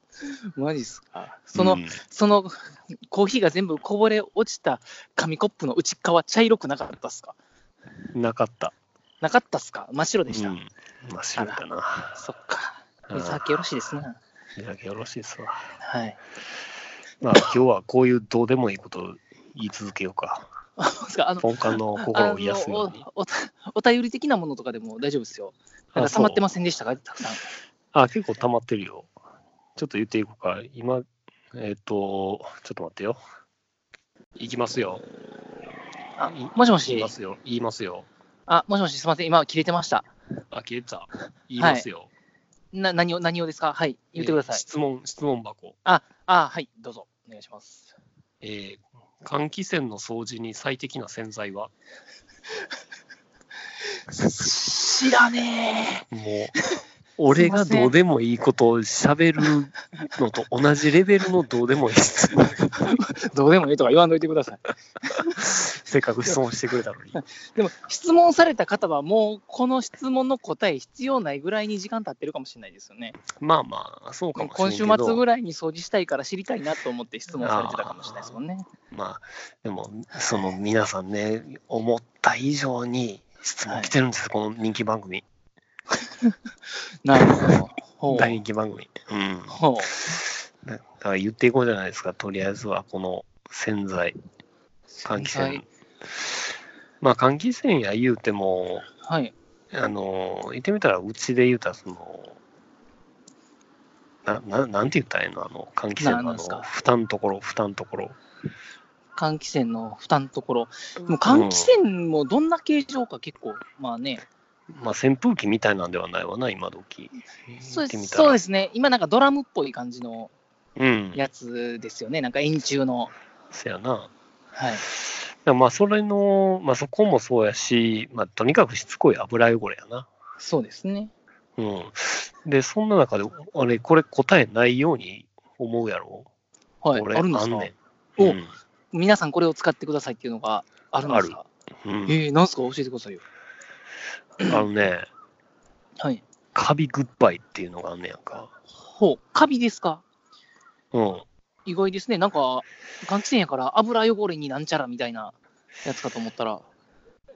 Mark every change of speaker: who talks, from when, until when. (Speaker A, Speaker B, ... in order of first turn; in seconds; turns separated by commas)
Speaker A: 0.2-7.3, Speaker B: 1.6-2.0, Speaker B: 8.1-8.7, Speaker A: 9.2-10.6, Speaker B: 10.3-12.2, Speaker A: 11.4-11.6, Speaker A: 12.2-14.2, Speaker B: 13.1-13.4, Speaker B: 14.6-15.7, Speaker A: 15.8-16.2, Speaker B: 17.2-20.5, Speaker A: 20.8-27.5, Speaker B: 21.4-23.0, Speaker B: 25.9-26.4, Speaker B: 27.9-29.1, Speaker B: 29.8-33.2, Speaker B: 34.4-35.0, Speaker A: 36.2-37.1, Speaker B: 36.3-38.1, Speaker A: 38.5-40.1, Speaker B: 40.5-42.1, Speaker A: 41.6-41.9, Speaker A: 42.7-44.6, Speaker B: 44.2-45.8, Speaker A: 45.9-47.9, Speaker B: 48.4-51.7, Speaker A: 54.1-56.1, Speaker B: 56.1-56.5, Speaker A: 56.8-58.0, Speaker B: 57.2-62.9, Speaker A: 62.7-65.5, Speaker B: 65.4-67.2, Speaker A: 67.1-73.2, Speaker B: 73.3-75.2, Speaker A: 74.4-78.7, Speaker B: 77.4-78.3, Speaker B: 78.9-85.2, Speaker A: 87.0-88.4, Speaker B: 88.1-94.2, Speaker A: 89.5-89.9, Speaker A: 94.9-95.6, Speaker B: 95.0-96.4, Speaker B: 97.0-98.9, Speaker A: 99.0-99.3, Speaker B: 99.7-102.4, Speaker B: 104.2-108.2, Speaker A: 106.0-106.7, Speaker A: 109.2-114.2, Speaker B: 111.3-111.7, Speaker B: 114.7-118.4, Speaker A: 117.6-120.3, Speaker B: 120.8-121.2, Speaker A: 121.2-123.1, Speaker B: 123.5-124.1, Speaker A: 124.5-124.8, Speaker B: 124.9-130.1, Speaker A: 130.4-131.1, Speaker B: 131.6-136.3, Speaker A: 136.8-138.4, Speaker B: 136.9-138.5, Speaker A: 138.9-141.5, Speaker B: 141.0-142.2, Speaker A: 142.1-143.2, Speaker B: 144.4-145.1, Speaker B: 146.5-148.5, Speaker A: 148.8-150.0, Speaker B: 150.9-151.3, Speaker A: 151.7-155.3, Speaker A: 155.8-156.7